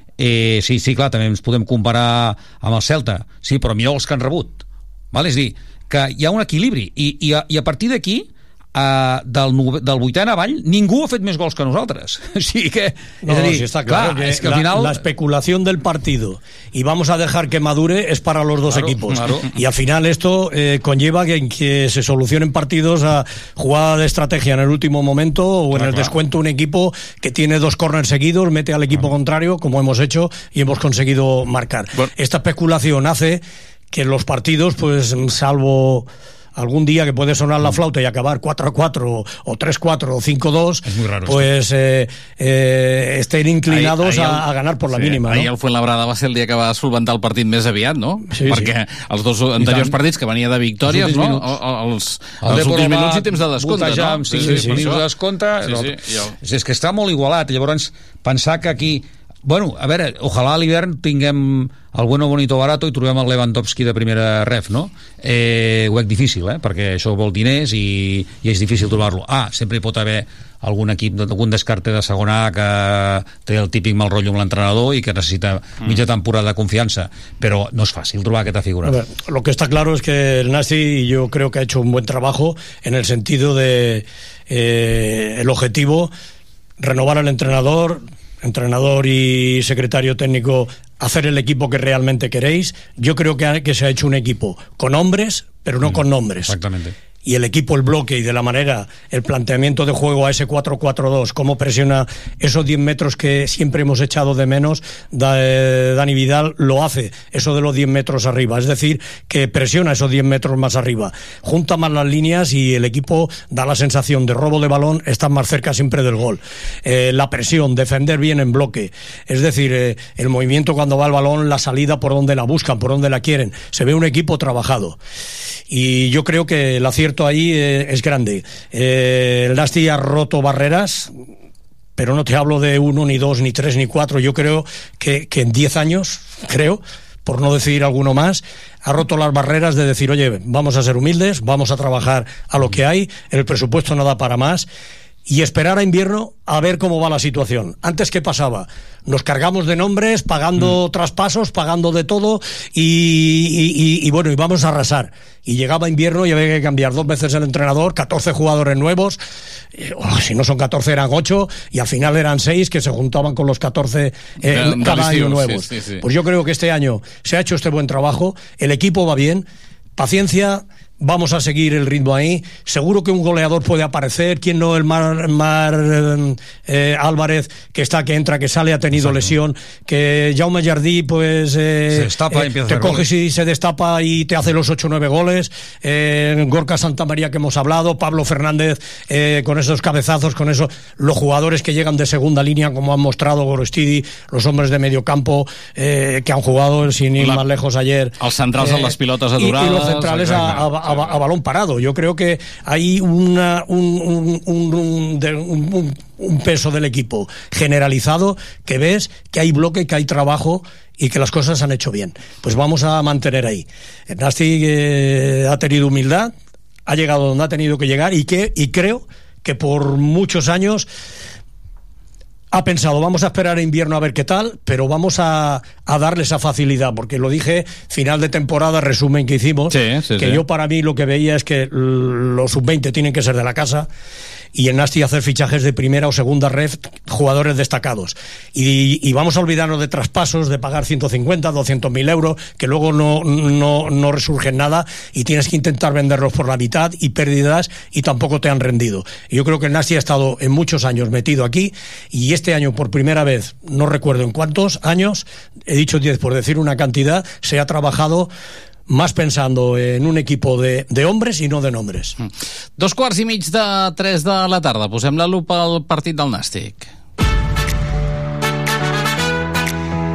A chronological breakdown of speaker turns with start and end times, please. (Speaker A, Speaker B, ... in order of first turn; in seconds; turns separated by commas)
Speaker A: 0.2-15.0, Speaker B: 13.2-45.5, Speaker A: 18.7-19.5, Speaker A: 25.8-26.2, Speaker A: 40.9-41.5, Speaker C: 43.7-55.0, Speaker B: 48.3-48.7, Speaker A: 49.6-50.0, Speaker A: 50.9-51.5, Speaker A: 52.4-79.0, Speaker B: 54.4-54.9, Speaker C: 55.6-56.4, Speaker B: 78.8-86.1, Speaker B: 86.8-96.5, Speaker A: 95.8-97.0, Speaker B: 97.2-125.0, Speaker B: 125.7-131.1, Speaker B: 132.0-144.7, Speaker B: 145.3-159.2, Speaker B: 159.7-216.3, Speaker C: 164.5-166.0, Speaker A: 179.0-179.3, Speaker A: 181.9-183.0, Speaker C: 198.2-201.2, Speaker B: 216.9-220.9, Speaker B: 222.5-233.9, Speaker C: 229.7-230.4, Speaker B: 234.5-258.3, Speaker B: 258.9-262.1, Speaker C: 262.2-266.9